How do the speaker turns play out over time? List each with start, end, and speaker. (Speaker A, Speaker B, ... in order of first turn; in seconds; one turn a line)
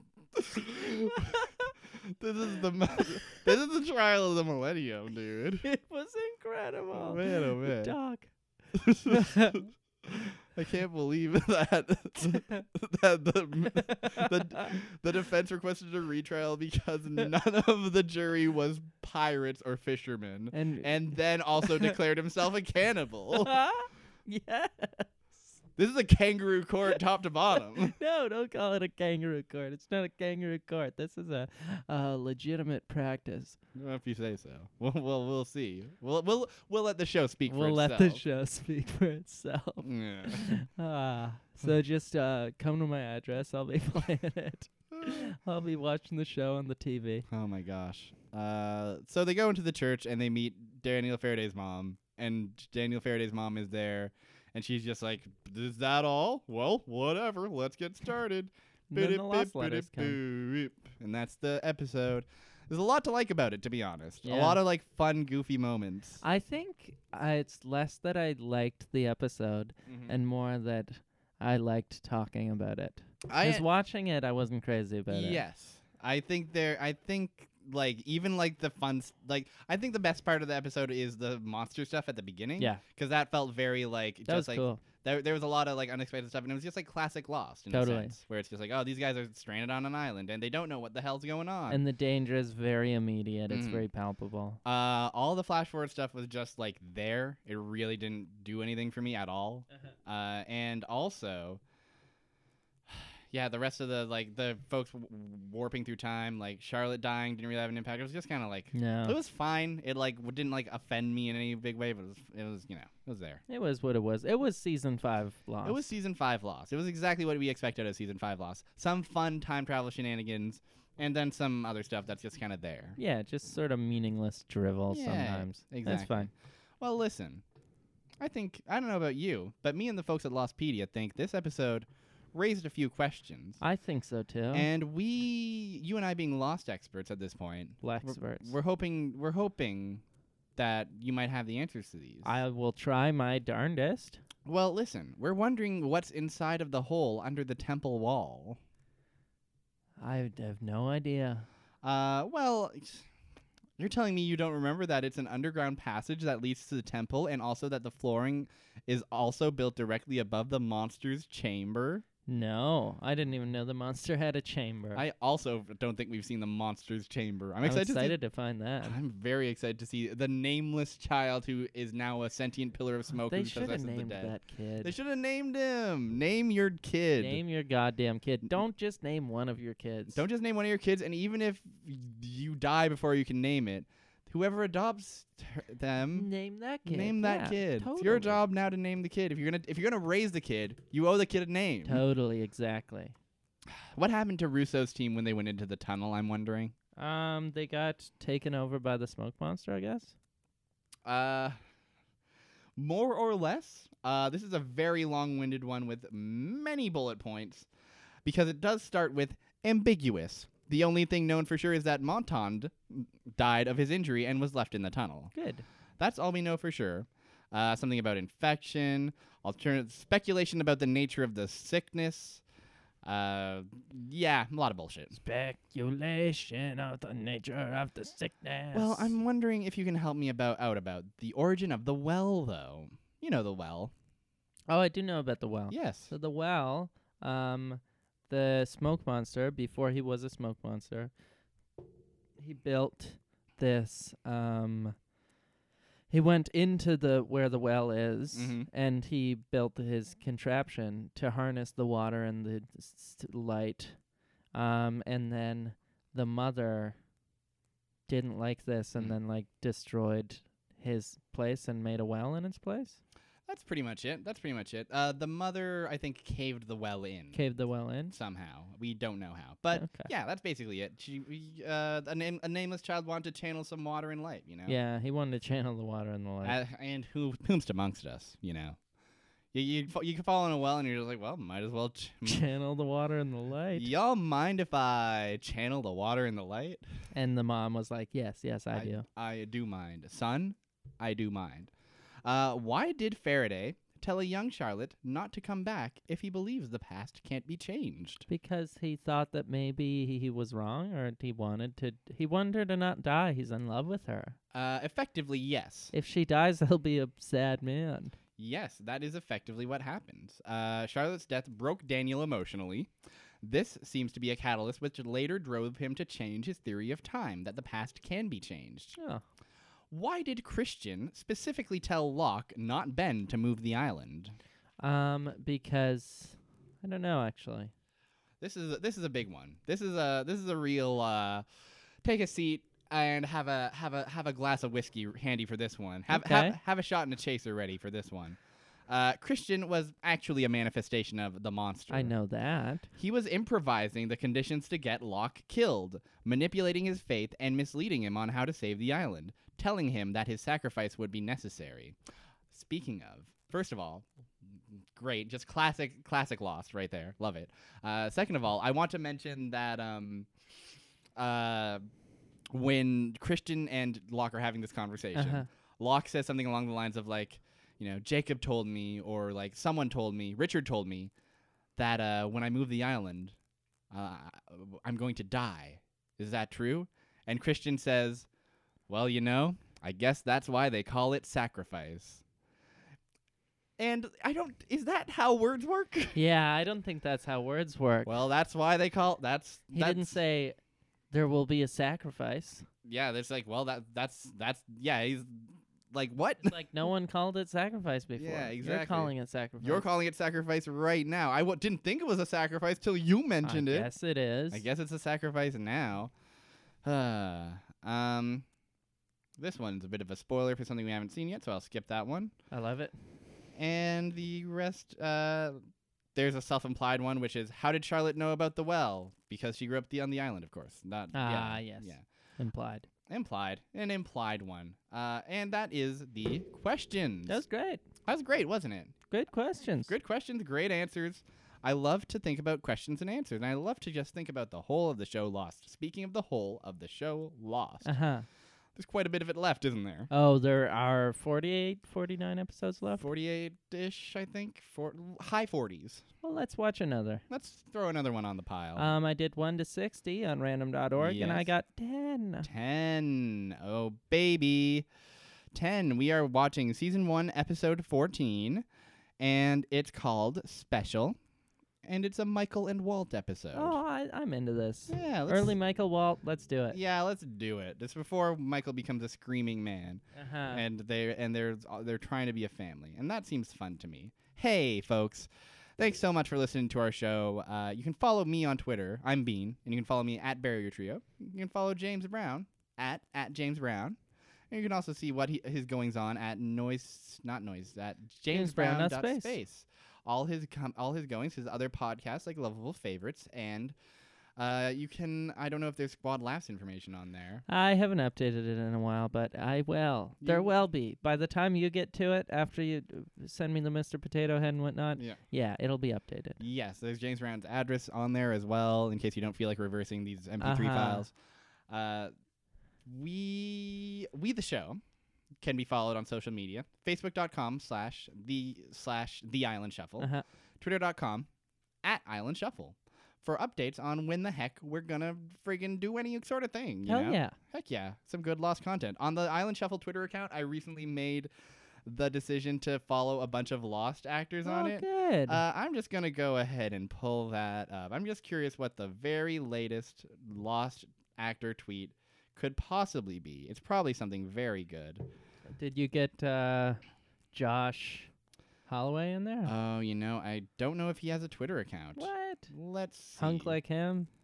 Speaker A: 0.3-1.4
Speaker B: 0.7-1.7
Speaker A: 1.9-5.7
Speaker B: 3.0-3.4
Speaker B: 5.6-8.3
Speaker A: 6.9-8.0
Speaker A: 8.7-23.6
Speaker B: 9.1-9.7
Speaker B: 12.2-12.7
Speaker B: 13.7-14.8
Speaker B: 20.5-21.0
Speaker B: 21.6-21.9
Speaker B: 23.4-25.6
Speaker A: 25.8-27.9
Speaker B: 27.7-33.6
Speaker A: 33.8-38.2
Speaker B: 37.5-47.3
Speaker A: 39.8-40.5
Speaker A: 45.0-45.3
Speaker A: 47.3-66.2
Speaker B: 58.9-60.2
Speaker B: 64.2-64.6
Speaker B: 66.2-75.4
Speaker A: 69.9-70.2
Speaker A: 73.3-73.7
Speaker A: 75.1-91.8
Speaker B: 84.3-84.8
Speaker B: 87.7-88.2
Speaker B: 91.7-94.6
Speaker A: 93.5-93.9
Speaker A: 94.7-101.6
Speaker A: 102.9-113.4
Speaker B: 108.7-109.2
Speaker B: 113.5-115.9
Speaker A: 115.6-123.0
Speaker B: 123.0-126.3
Speaker A: 124.9-127.4
Speaker A: 128.2-133.6
Speaker B: 133.6-134.7
Speaker A: 134.5-140.0
Speaker B: 137.8-138.6
Speaker A: 140.6-142.3
Speaker B: 142.2-144.2
Speaker A: 144.5-148.6
Speaker B: 150.0-151.5
Speaker A: 151.8-153.1
Speaker A: 153.8-162.0
Speaker B: 162.3-165.0
Speaker A: 164.9-168.2
Speaker B: 167.6-169.0
Speaker A: 168.8-177.4
Speaker B: 173.3-174.9
Speaker B: 177.2-180.2
Speaker A: 180.1-186.3
Speaker B: 186.1-188.4
Speaker A: 186.9-192.0
Speaker B: 191.8-193.1
Speaker A: 193.8-196.7
Speaker B: 197.0-200.1
Speaker A: 201.1-201.6
Speaker A: 202.8-207.7
Speaker A: 208.2-215.3
Speaker B: 215.3-215.7
Speaker A: 216.0-222.4
Speaker A: 223.1-225.2
Speaker B: 225.2-229.2
Speaker A: 228.7-233.9
Speaker B: 234.7-241.1
Speaker A: 235.7-236.1
Speaker B: 242.4-244.9
Speaker B: 246.1-254.0
Speaker A: 248.3-248.7
Speaker B: 254.5-257.0
Speaker B: 258.1-263.0
Speaker A: 263.5-267.4
Speaker B: 267.3-268.2
Speaker A: 268.1-274.8
Speaker B: 269.7-270.1
Speaker B: 274.7-276.6
Speaker A: 276.4-278.8
Speaker A: 279.5-282.4
Speaker B: 282.3-283.9
Speaker A: 283.8-286.8
Speaker B: 287.1-289.1
Speaker A: 288.7-291.7
Speaker A: 292.2-298.3
Speaker B: 298.3-304.4
Speaker A: 304.5-305.9
Speaker B: 305.9-308.1
Speaker A: 308.4-312.9
Speaker A: 313.4-319.0
Speaker B: 319.0-319.2
Speaker A: 319.9-324.4
Speaker B: 324.8-327.7
Speaker A: 328.4-331.4
Speaker A: 332.0-342.1
Speaker B: 336.1-336.6
Speaker B: 341.9-342.9
Speaker A: 343.0-352.0
Speaker A: 352.5-354.1
Speaker A: 354.9-360.3
Speaker A: 361.2-361.8
Speaker A: 362.5-371.1
Speaker B: 365.1-365.4
Speaker A: 371.8-373.4
Speaker A: 373.9-378.3
Speaker A: 378.9-382.2
Speaker A: 383.8-386.2
Speaker B: 386.1-388.1
Speaker A: 388.1-390.2
Speaker B: 389.7-390.6
Speaker B: 391.1-392.7
Speaker A: 392.9-396.5
Speaker B: 396.4-399.9
Speaker A: 398.2-403.9
Speaker B: 403.4-404.7
Speaker A: 404.5-406.1
Speaker A: 406.8-408.5
Speaker A: 409.4-412.3
Speaker B: 412.5-412.9
Speaker A: 413.6-415.6
Speaker A: 416.1-422.0
Speaker B: 421.1-422.9
Speaker A: 423.1-427.4
Speaker B: 427.3-427.8
Speaker A: 428.1-428.9
Speaker B: 429.1-429.9
Speaker A: 429.9-437.9
Speaker B: 437.8-438.3
Speaker A: 438.8-440.1
Speaker B: 440.1-443.1
Speaker A: 443.0-446.0
Speaker B: 446.2-447.2
Speaker A: 447.3-448.9
Speaker B: 448.8-452.5
Speaker A: 451.0-451.5
Speaker A: 452.4-454.9
Speaker A: 455.5-458.6
Speaker A: 459.2-461.2
Speaker A: 461.8-463.8
Speaker B: 463.5-466.8
Speaker A: 464.9-465.5
Speaker A: 466.7-484.0
Speaker B: 470.1-470.6
Speaker A: 484.5-493.8
Speaker B: 488.3-489.4
Speaker A: 494.4-497.4
Speaker B: 497.5-506.4
Speaker A: 500.2-500.5
Speaker A: 506.4-511.1
Speaker B: 510.4-511.1
Speaker A: 511.7-512.1
Speaker A: 512.9-514.8
Speaker A: 515.4-521.3
Speaker B: 520.0-520.2
Speaker A: 521.8-531.3
Speaker B: 526.9-527.4
Speaker A: 531.9-545.0
Speaker B: 534.4-535.4
Speaker B: 545.6-546.8
Speaker B: 547.3-548.1
Speaker B: 548.7-549.5
Speaker A: 549.4-553.6
Speaker B: 552.0-552.5
Speaker B: 553.2-554.1